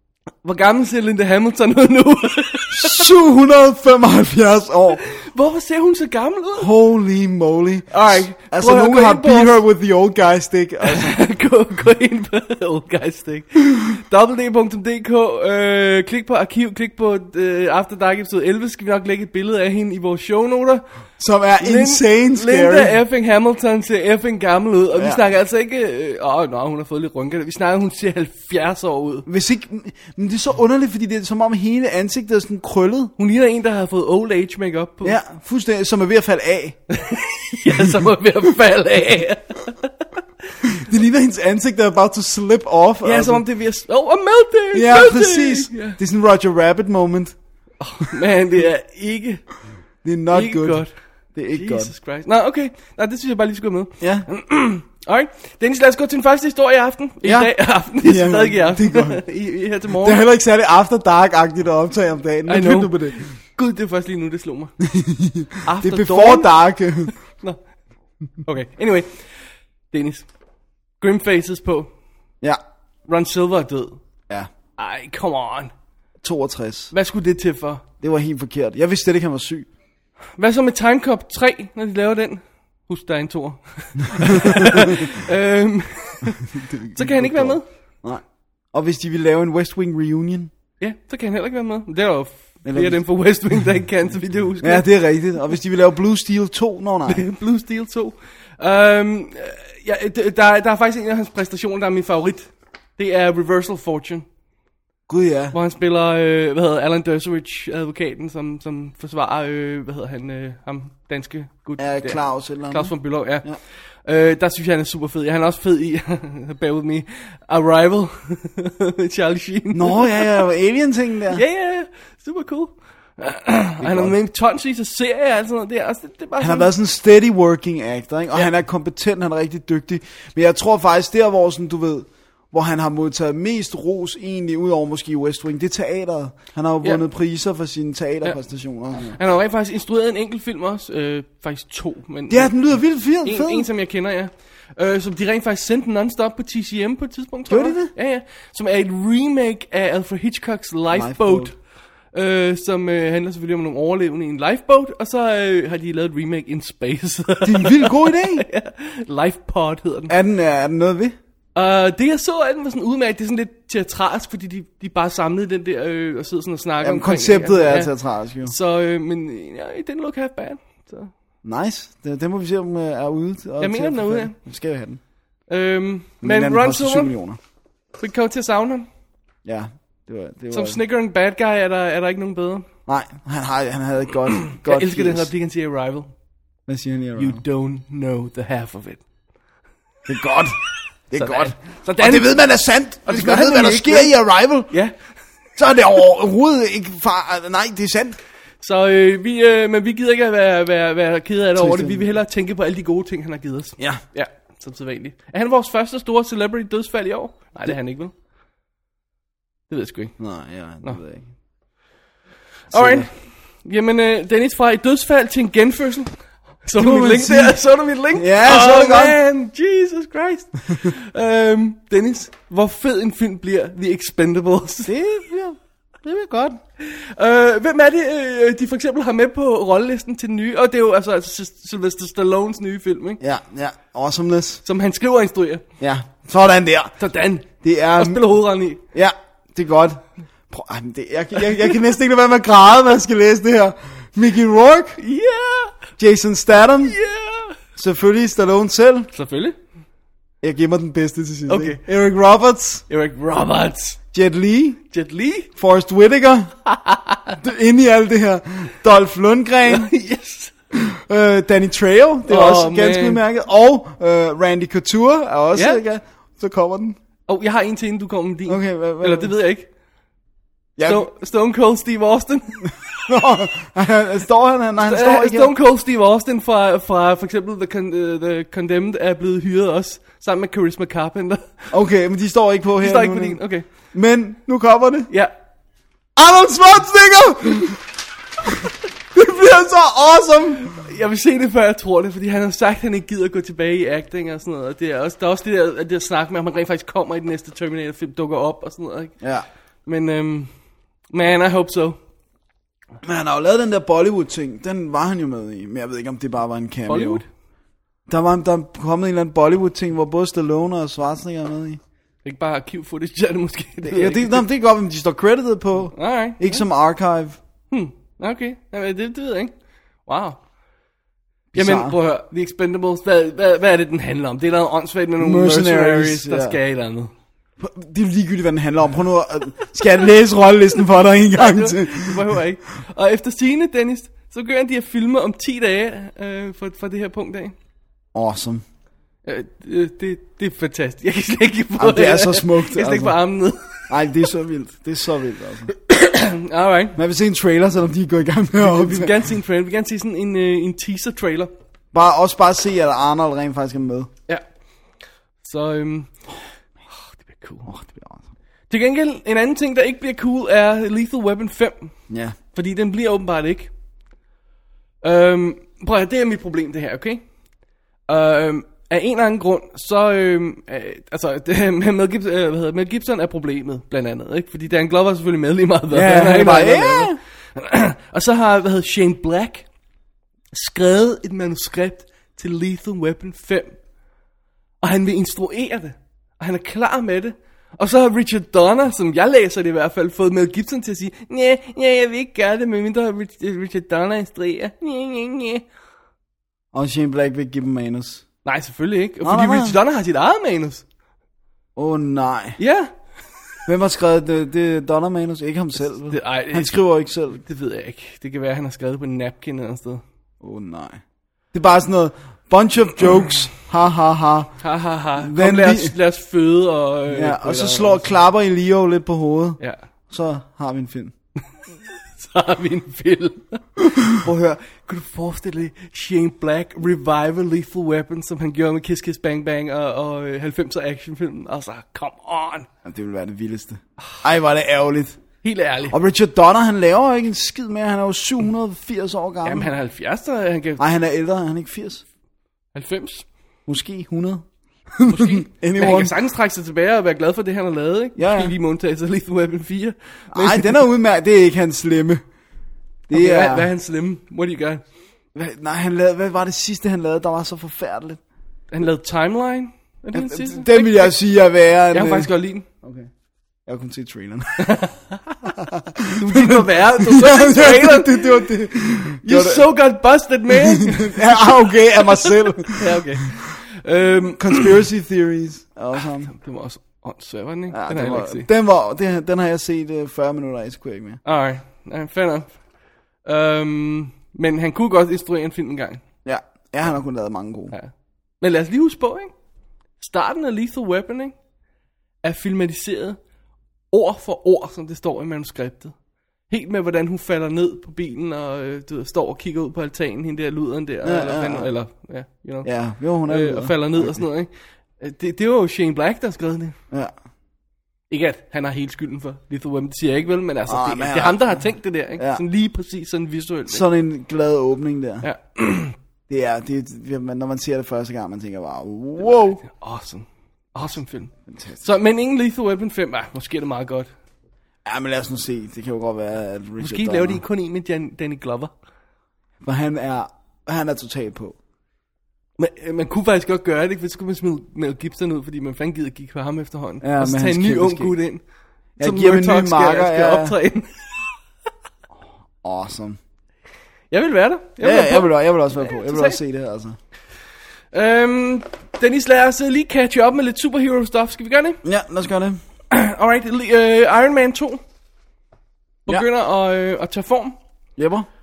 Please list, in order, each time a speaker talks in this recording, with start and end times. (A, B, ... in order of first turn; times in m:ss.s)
0:00.4-0:03.1 A
0:02.7-0:05.0 B
0:05.0-0:06.7 A
0:06.6-0:11.2 B
0:07.9-0:09.6 A
0:10.8-0:20.8 A
0:21.2-0:23.0 B
0:21.6-0:29.3 A
0:25.0-0:25.2 B
0:29.3-0:33.1 B
0:33.2-0:35.2 A
0:35.0-0:36.8 B
0:36.9-0:39.9 A
0:40.6-0:43.4 B
0:43.0-0:46.0 A
0:44.7-0:47.4 B
0:47.8-0:49.4 A
0:50.0-0:51.9 B
0:50.3-1:00.2 A
0:54.0-0:54.3 B
0:57.2-0:59.3 B
1:00.0-1:03.2 B
1:02.5-1:04.8 A
1:04.8-1:07.1 B
1:05.6-1:06.5 A
1:08.4-1:10.3 A
1:11.0-1:11.9 A
1:13.1-1:14.0 A
1:14.8-1:15.7 A
1:16.2-1:16.9 B
1:16.9-1:17.8 A
1:18.0-1:19.7 B
1:20.4-1:27.7 A
1:24.3-1:25.0 B
1:26.5-1:30.5 B
1:30.8-1:34.9 A
1:32.6-1:33.0 B
1:34.6-1:37.2 B
1:37.1-1:44.2 A
1:45.1-1:45.6 B
1:45.5-2:00.4 A
1:51.8-1:53.6 B
1:59.7-2:01.4 B
2:01.3-2:06.7 A
2:03.8-2:04.2 B
2:06.4-2:19.2 B
2:19.2-2:22.5 A
2:22.3-2:23.7 B
2:23.2-2:31.6 A
2:27.5-2:27.9 B
2:30.9-2:31.5 B
2:32.1-2:40.1 A
2:37.4-2:38.4 B
2:40.1-2:41.2 B
2:41.6-2:51.1 A
2:46.8-2:48.6 B
2:51.4-2:55.0 B
2:53.6-2:54.4 A
2:55.5-2:57.1 A
2:56.2-2:57.4 B
2:58.0-2:58.9 A
2:59.4-3:00.8 B
3:00.5-3:02.6 A
3:02.9-3:05.3 B
3:04.5-3:06.1 A
3:06.7-3:07.4 B
3:07.2-3:09.0 A
3:10.1-3:10.6 B
3:11.1-3:14.7 B
3:11.2-3:12.4 A
3:13.0-3:14.1 A
3:15.6-3:18.2 B
3:18.6-3:28.1 A
3:21.6-3:22.0 B
3:29.7-3:30.2 A
3:30.2-3:31.2 B
3:32.7-3:44.9 A
3:32.7-3:33.1 B
3:36.8-3:37.6 B
3:38.1-3:39.2 B
3:44.9-3:46.6 B
3:46.8-3:53.2 A
3:53.2-3:54.6 B
3:54.6-3:55.6 A
3:55.8-3:57.0 B
3:57.0-3:58.8 A
3:57.6-3:58.2 B
3:58.9-4:05.0 B
4:05.0-4:05.8 A
4:06.0-4:07.0 B
4:06.8-4:07.6 A
4:07.8-4:09.1 B
4:09.1-4:09.6 A
4:10.4-4:12.8 B
4:11.5-4:11.8 A
4:12.9-4:14.0 A
4:14.1-4:14.8 B
4:14.9-4:15.5 A
4:15.6-4:16.6 B
4:16.7-4:17.4 A
4:17.4-4:19.9 B
4:19.7-4:20.5 A
4:20.7-4:27.0 B
4:22.3-4:23.2 A
4:25.6-4:25.8 A
4:27.3-4:29.7 A
4:28.5-4:29.3 B
4:30.8-4:31.1 B
4:30.8-4:32.9 A
4:33.1-4:35.5 B
4:34.8-4:41.7 A
4:41.7-4:45.1 B
4:42.8-4:43.7 A
4:46.2-4:47.8 B
4:48.4-4:50.8 B
4:50.7-4:59.2 A
4:59.2-4:59.5 B
4:59.8-5:00.5 A
5:01.1-5:02.0 A
5:03.0-5:07.2 B
5:06.9-5:07.3 A
5:08.1-5:11.8 B
5:12.2-5:14.5 A
5:13.8-5:17.4 B
5:15.9-5:16.6 A
5:17.7-5:19.5 A
5:20.1-5:20.4 A
5:21.5-5:22.0 B
5:21.6-5:27.1 A
5:25.2-5:26.6 B
5:27.6-5:32.3 B
5:31.3-5:37.6 A
5:38.1-5:38.6 B
5:39.2-5:44.0 A
5:41.8-5:43.2 B
5:43.9-5:45.7 B
5:45.9-5:47.0 A
5:47.0-5:49.2 B
5:48.6-5:51.5 A
5:51.9-5:54.1 B
5:55.4-5:56.1 A
5:56.9-5:57.7 A
5:57.7-5:58.2 B
5:58.7-6:01.9 A
6:02.1-6:02.4 B
6:02.5-6:03.7 A
6:05.0-6:07.2 A
6:08.1-6:19.7 A
6:15.9-6:17.2 B
6:20.5-6:23.8 A
6:24.8-6:35.6 A
6:36.7-6:38.2 B
6:38.4-6:40.8 A
6:39.2-6:39.8 B
6:41.8-6:42.6 B
6:42.6-6:42.9 A
6:43.7-6:47.4 B
6:46.1-6:46.8 A
6:47.3-6:50.0 A
6:50.4-6:51.0 B
6:51.5-6:54.6 B
6:54.6-6:58.1 A
6:55.2-6:56.0 B
6:57.1-7:01.1 B
7:02.1-7:12.7 A
7:12.8-7:15.2 B
7:15.4-7:16.0 A
7:15.9-7:19.7 B
7:19.4-7:20.8 A
7:20.8-7:22.0 B
7:22.7-7:23.3 A
7:23.7-7:24.4 B
7:25.0-7:26.1 B
7:25.1-7:30.8 A
7:28.2-7:28.5 B
7:30.3-7:32.2 B
7:33.1-7:33.7 B
7:33.1-7:34.8 A
7:35.4-7:38.2 B
7:38.7-7:41.2 A
7:40.1-7:42.3 B
7:41.9-7:42.7 A
7:42.8-7:43.1 B
7:43.7-7:44.8 B
7:44.6-7:45.4 A
7:45.4-7:49.7 B
7:46.2-7:48.4 A
7:49.2-7:54.8 A
7:50.5-7:53.0 B
7:54.2-7:56.3 B
7:56.2-7:58.5 A
7:57.7-8:01.2 B
8:01.2-8:02.6 A
8:03.2-8:06.0 A
8:06.2-8:07.7 B
8:07.7-8:09.3 A
8:10.0-8:11.4 A
8:12.2-8:13.2 A
8:13.9-8:15.9 A
8:16.5-8:22.7 A
8:21.0-8:21.7 B
8:22.6-8:24.2 B
8:23.3-8:26.8 A
8:28.1-8:33.8 A
8:30.7-8:31.6 B
8:32.2-8:32.4 B
8:33.7-8:35.3 B
8:35.2-8:36.0 A
8:36.3-8:39.6 B
8:39.6-8:44.1 A
8:41.5-8:41.8 B
8:44.8-8:47.4 B
8:46.8-8:48.7 A
8:49.6-8:51.6 B
8:52.6-8:58.4 A
8:57.0-8:58.2 B
8:59.0-9:00.6 B
8:59.0-9:01.4 A
9:02.6-9:03.2 B
9:04.1-9:06.4 A
9:04.8-9:07.0 B
9:07.9-9:11.8 A
9:11.8-9:12.6 B
9:12.9-9:14.8 A
9:16.1-9:17.6 A
9:18.0-9:18.3 B